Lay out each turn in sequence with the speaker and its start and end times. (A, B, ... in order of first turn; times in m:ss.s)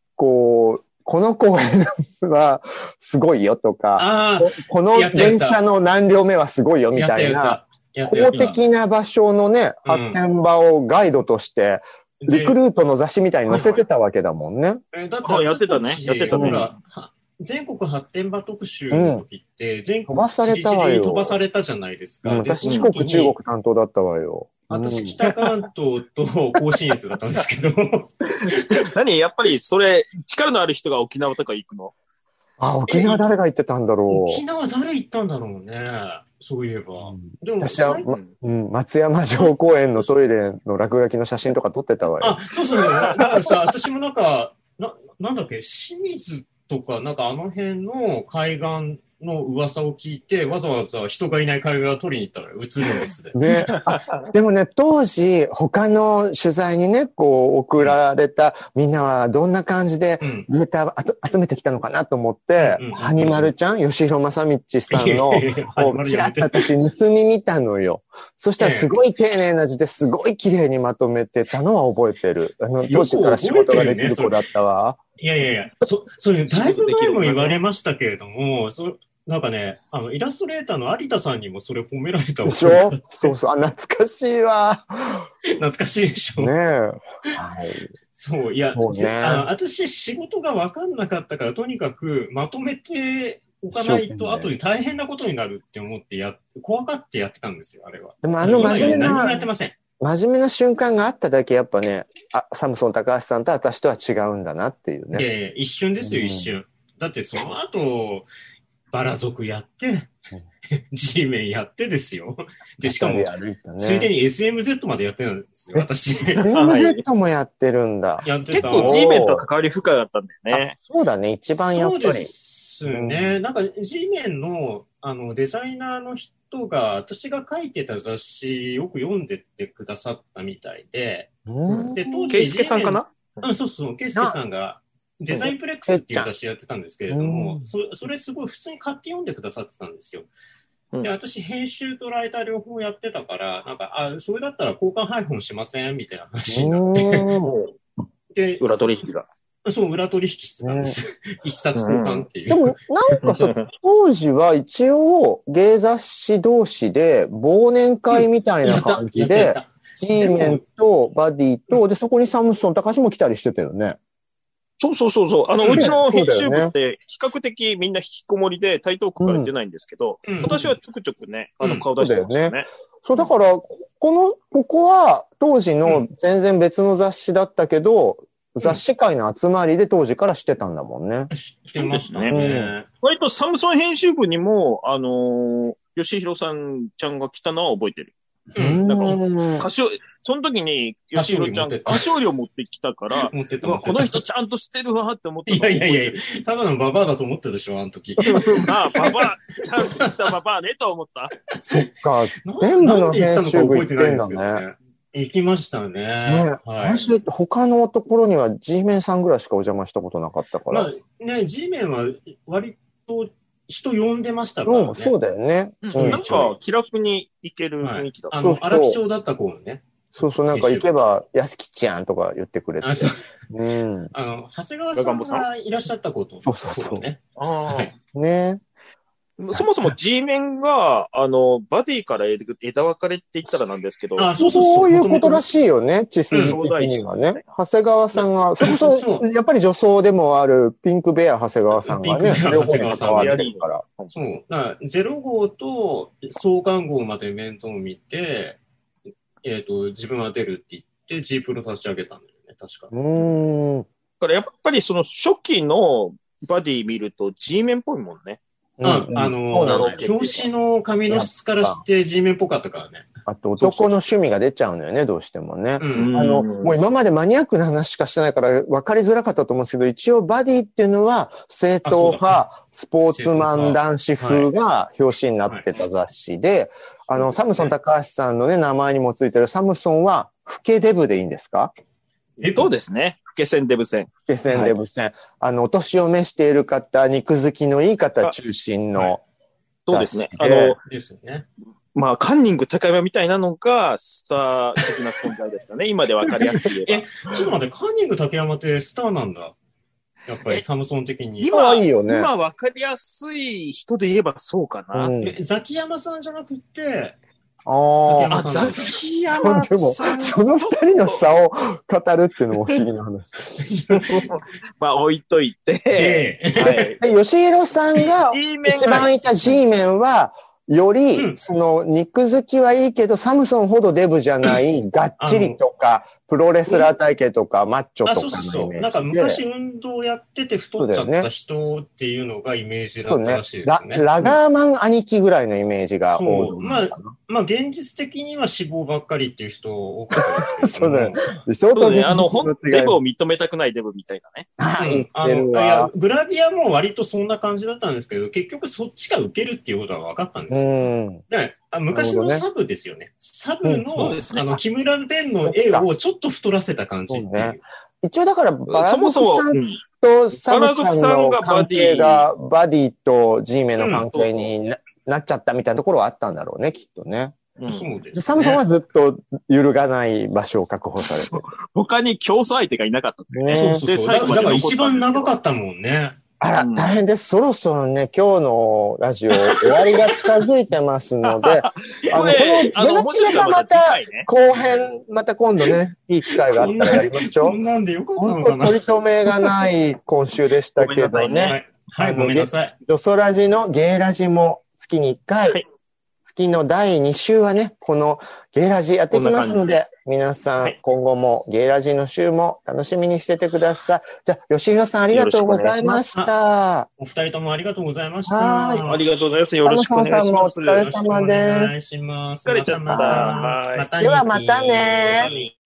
0:00.2-0:14.8 A
0:04.0-0:05.6 B
0:06.9-0:08.6 B
0:09.8-0:10.2 B
0:12.2-0:12.6 B
0:13.5-0:13.8 B
0:14.9-0:23.4 B
0:15.2-0:16.7 C
0:16.3-0:16.7 A
0:18.9-0:19.2 A
0:20.1-0:21.4 A
0:22.2-0:25.2 A
0:22.6-0:22.9 C
0:24.7-0:28.7 B
0:25.3-0:25.6 C
0:28.3-0:31.9 C
0:32.6-0:34.4 A
0:32.9-0:33.3 B
0:34.1-0:38.1 B
0:37.0-0:43.5 A
0:38.1-0:38.3 C
0:39.3-0:40.2 B
0:42.2-0:53.4 B
0:53.3-1:15.0 A
0:53.7-0:54.3 C
1:00.2-1:00.5 B
1:02.6-1:03.5 B
1:04.9-1:06.7 B
1:08.6-1:08.9 B
1:12.8-1:14.4 B
1:15.2-1:23.4 B
1:16.5-1:17.6 C
1:22.4-1:25.3 A
1:25.5-1:26.5 B
1:26.4-1:27.9 A
1:28.1-1:39.8 B
1:28.7-1:29.5 A
1:33.7-1:34.5 A
1:38.2-1:39.5 A
1:38.5-1:39.2 C
1:40.0-1:45.3 A
1:45.1-1:48.3 B
1:46.0-1:46.5 A
1:48.9-1:50.1 B
1:50.8-1:56.5 B
1:52.8-1:54.1 A
1:56.4-1:59.5 A
1:56.5-1:57.0 C
1:58.2-1:59.1 B
1:58.5-2:00.8 C
2:00.5-2:02.3 A
2:01.7-2:11.3 B
2:02.9-2:03.4 A
2:11.5-2:12.4 A
2:11.7-2:13.5 C
2:12.0-2:20.3 B
2:15.3-2:16.3 A
2:17.1-2:17.7 A
2:21.0-2:27.3 B
2:26.5-2:27.5 A
2:28.3-2:28.8 B
2:28.6-2:29.3 C
2:29.6-2:32.7 B
2:30.6-2:31.0 A
2:31.8-2:32.3 C
2:32.5-2:44.0 A
2:33.2-2:33.7 C
2:38.1-2:40.6 B
2:44.8-2:52.7 C
2:45.6-2:46.0 B
2:45.8-2:46.7 A
2:49.2-2:49.5 A
2:50.2-2:50.6 B
2:50.4-2:50.7 A
2:51.6-2:51.9 B
2:52.0-3:01.3 A
3:01.3-3:02.9 B
3:01.8-3:02.5 C
3:02.3-3:02.7 A
3:03.0-3:08.2 C
3:08.5-3:08.8 B
3:08.6-3:09.7 A
3:08.9-3:16.2 C
3:11.2-3:12.1 B
3:13.2-3:14.2 B
3:15.5-3:20.1 B
3:18.2-3:21.3 C
3:21.5-3:21.9 B
3:21.6-3:24.6 A
3:22.4-3:27.1 B
3:26.2-3:30.9 A
3:30.7-3:35.1 B
3:34.7-3:36.5 A
3:35.8-3:38.4 C
3:35.9-3:36.6 B
3:37.8-3:39.9 B
3:38.4-3:39.0 A
3:40.2-3:44.1 A
3:40.5-3:40.9 B
3:42.8-3:43.2 B
3:44.1-3:47.9 B
3:45.0-3:45.5 C
3:46.4-3:47.1 A
3:47.4-3:47.9 C
3:48.1-3:48.6 A
3:49.4-3:54.3 C
3:49.5-3:50.0 A
3:54.2-3:55.5 B
3:54.4-4:03.8 A
3:56.3-3:56.6 B
3:56.4-3:57.4 C
3:58.6-3:59.3 B
4:01.9-4:03.4 B
4:02.3-4:04.2 C
4:04.1-4:08.6 B
4:09.4-4:13.0 B
4:12.9-4:13.9 A
4:14.2-4:18.4 C
4:18.8-4:20.0 A
4:18.8-4:23.1 B
4:19.6-4:20.5 C
4:21.1-4:21.8 A
4:23.3-4:41.7 A
4:23.6-4:23.9 C
4:25.8-4:26.1 B
4:25.9-4:26.8 C
4:31.8-4:32.4 B
4:33.1-4:34.5 B
4:37.1-4:37.7 C
4:42.4-4:42.7 B
4:42.4-4:44.8 C
4:44.2-4:49.2 A
4:49.9-4:50.8 C
4:49.9-4:50.8 A
4:50.9-4:51.5 B
4:52.0-4:57.1 C
4:56.4-4:59.6 B
5:00.3-5:01.5 B
5:01.4-5:05.2 C
5:01.5-5:02.3 A
5:04.9-5:05.4 A
5:05.2-5:07.2 B
5:07.7-5:08.4 A
5:08.1-5:09.0 B
5:08.3-5:11.3 C
5:09.3-5:13.7 A
5:13.6-5:14.1 B
5:14.0-5:17.0 C
5:15.9-5:17.0 B
5:16.9-5:29.4 A
5:18.0-5:19.6 C
5:21.1-5:21.4 B
5:25.2-5:25.6 B
5:28.0-5:34.1 B
5:30.8-5:31.3 A
5:33.0-5:37.1 A
5:36.1-5:41.3 B
5:40.2-5:43.0 A
5:41.7-5:44.5 C
5:44.6-5:45.9 A
5:44.8-5:57.6 B
5:50.5-5:51.2 A
5:51.9-5:52.5 A
5:53.6-5:54.2 A
5:54.0-5:54.6 C
5:55.3-5:55.9 A
5:57.1-6:07.4 A
5:58.7-5:59.8 C
6:00.3-6:02.3 C
6:03.8-6:04.1 B
6:04.1-6:04.5 C
6:07.6-6:07.9 C
6:07.7-6:08.6 B
6:08.1-6:11.5 A
6:11.0-6:15.4 C
6:13.3-6:13.8 A
6:13.5-6:16.2 B
6:16.4-6:27.6 A
6:16.6-6:17.0 C
6:21.2-6:25.0 C
6:22.1-6:22.7 B
6:26.5-6:28.8 B
6:28.2-6:35.6 A
6:30.8-6:31.6 C
6:31.3-6:32.8 B
6:36.3-6:46.9 A
6:39.1-6:39.8 C
6:45.1-6:45.8 C
6:45.8-6:46.3 B
6:47.0-6:49.0 B
6:48.3-6:48.9 A
6:48.9-6:50.9 C
6:49.6-6:51.7 A
6:50.1-6:55.5 B
6:52.5-6:53.9 C
6:52.9-6:53.4 A
6:54.0-6:55.3 A